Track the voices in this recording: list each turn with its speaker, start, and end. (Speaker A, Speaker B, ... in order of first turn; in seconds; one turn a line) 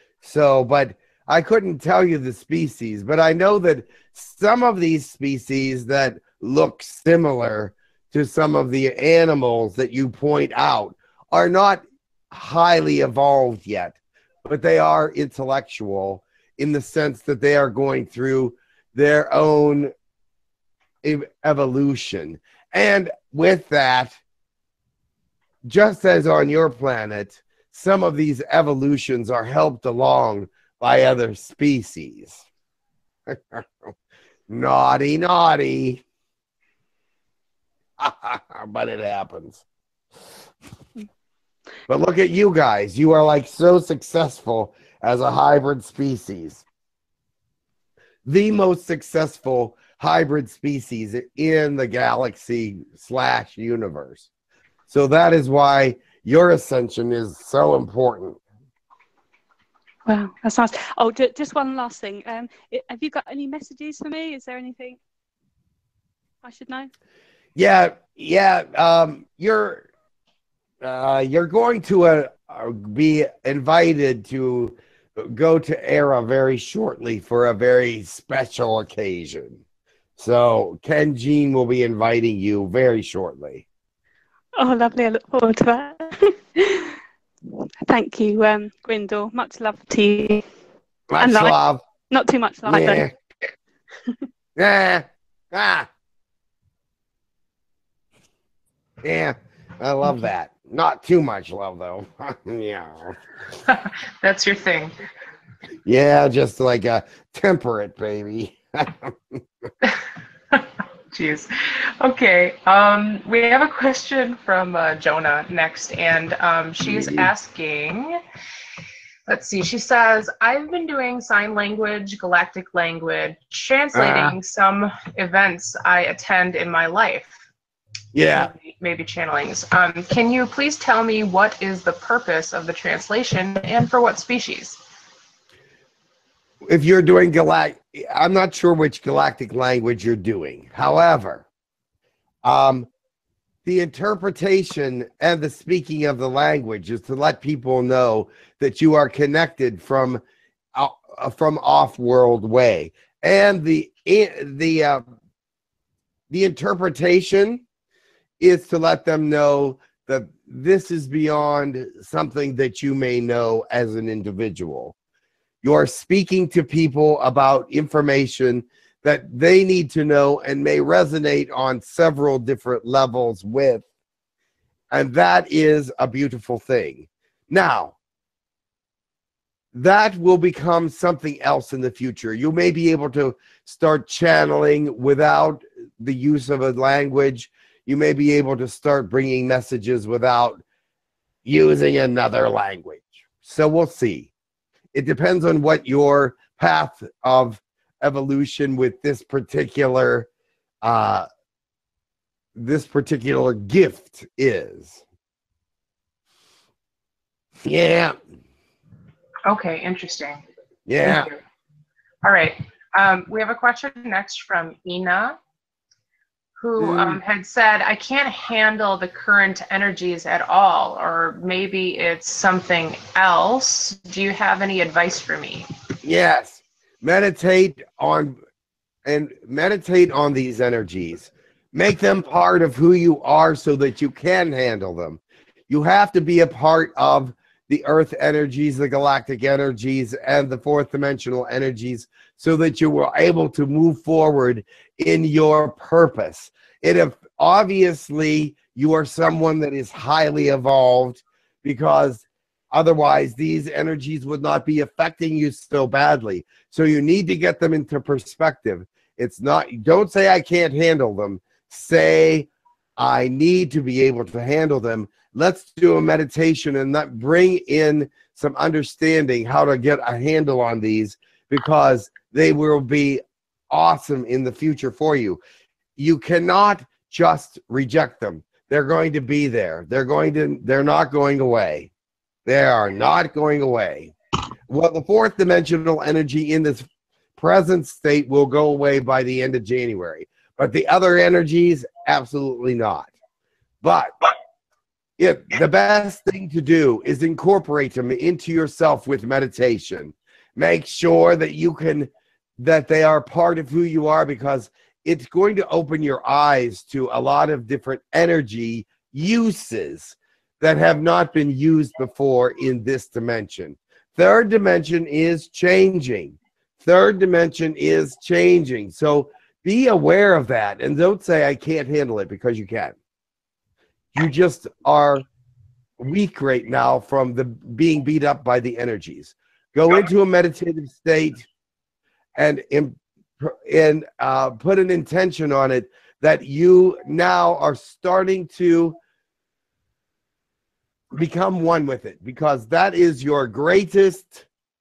Speaker A: 0.2-19.9
Speaker A: 21.0-24.2
Speaker A: 25.6-32.4
Speaker A: 33.3-33.7
Speaker A: 34.5-36.0
Speaker A: 38.0-39.6
Speaker A: 41.9-46.6
Speaker A: 48.2-54.3
Speaker A: 54.9-58.4
Speaker B: 60.1-65.0
Speaker B: 66.4-66.9
Speaker A: 67.5-69.9
Speaker A: 70.8-79.6
Speaker A: 80.2-83.6
Speaker B: 84.6-86.9
Speaker B: 87.8-90.4
Speaker A: 91.1-91.8
Speaker B: 91.2-91.6
Speaker B: 92.1-93.1
Speaker A: 92.6-93.1
Speaker A: 94.5-95.9
Speaker A: 99.0-103.2
Speaker C: 103.7-104.9
Speaker A: 105.8-109.7
Speaker C: 110.5-111.5
Speaker C: 112.0-118.2
Speaker A: 116.8-117.3
Speaker C: 119.3-127.4
Speaker A: 123.9-124.3
Speaker A: 128.1-128.5
Speaker C: 128.3-134.8
Speaker A: 136.6-141.4
Speaker A: 142.4-142.9
Speaker A: 143.6-150.2
Speaker A: 150.7-155.0
Speaker A: 156.3-157.6
Speaker A: 158.4-164.9
Speaker A: 165.6-173.8
Speaker A: 174.9-177.9
Speaker A: 179.7-190.6
Speaker A: 191.4-194.3
Speaker A: 194.9-200.3
Speaker A: 200.8-201.3
Speaker A: 202.6-205.0
Speaker A: 207.6-208.2
Speaker C: 209.4-210.4
Speaker A: 210.8-211.3
Speaker C: 211.0-211.4
Speaker C: 212.2-215.4
Speaker C: 216.6-225.7
Speaker A: 216.8-217.2
Speaker A: 226.0-228.4
Speaker A: 229.0-275.4
Speaker A: 276.0-281.9
Speaker A: 282.4-284.1
Speaker A: 284.7-293.1
Speaker A: 293.8-294.1
Speaker A: 295.2-322.9
Speaker A: 324.1-325.2
Speaker A: 326.0-331.4
Speaker A: 332.4-339.0
Speaker A: 341.1-344.4